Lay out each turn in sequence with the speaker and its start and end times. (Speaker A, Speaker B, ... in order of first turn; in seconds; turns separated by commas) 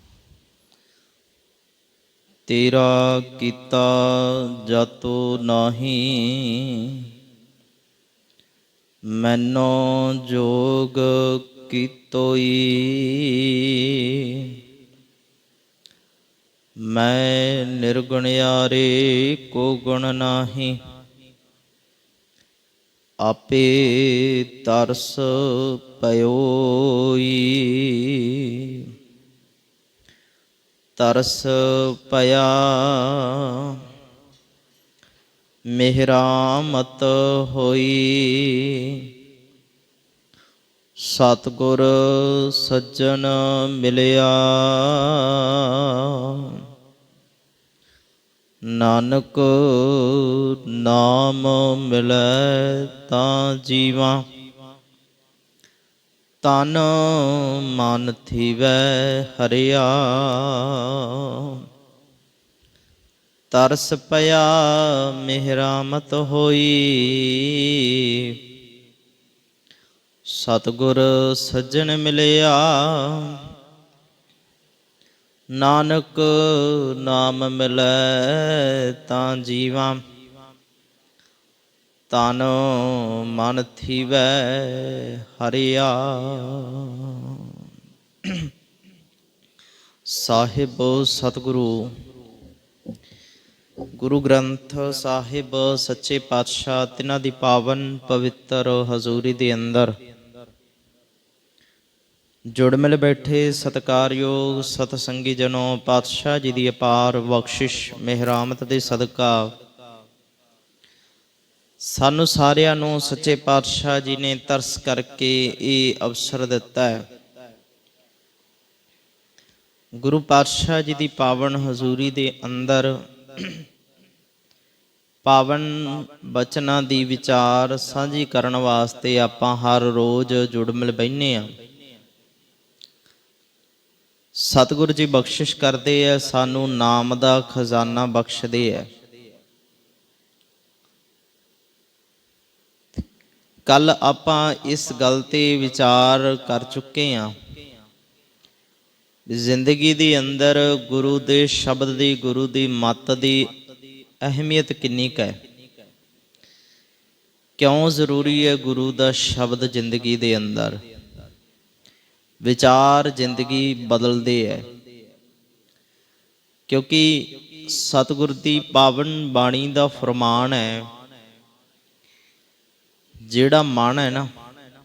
Speaker A: 2.5-7.0, Speaker A: 9.1-14.5, Speaker A: 16.8-20.8, Speaker A: 23.2-28.9, Speaker A: 31.0-33.8, Speaker A: 35.7-39.1, Speaker A: 41.0-46.6, Speaker A: 48.7-54.2, Speaker A: 56.4-61.6, Speaker A: 63.5-68.3, Speaker A: 70.3-73.4, Speaker A: 75.6-80.0, Speaker A: 82.1-87.5, Speaker A: 88.2-88.5, Speaker A: 90.1-91.9, Speaker A: 94.0-99.9, Speaker A: 102.5-109.5, Speaker A: 111.8-117.0, Speaker A: 120.0-123.6, Speaker A: 125.2-131.5, Speaker A: 134.3-138.9, Speaker A: 143.7-147.3, Speaker A: 149.3-153.5, Speaker A: 154.2-155.4, Speaker A: 157.6-160.8, Speaker A: 162.4-164.7, Speaker A: 166.7-170.8, Speaker A: 173.3-174.3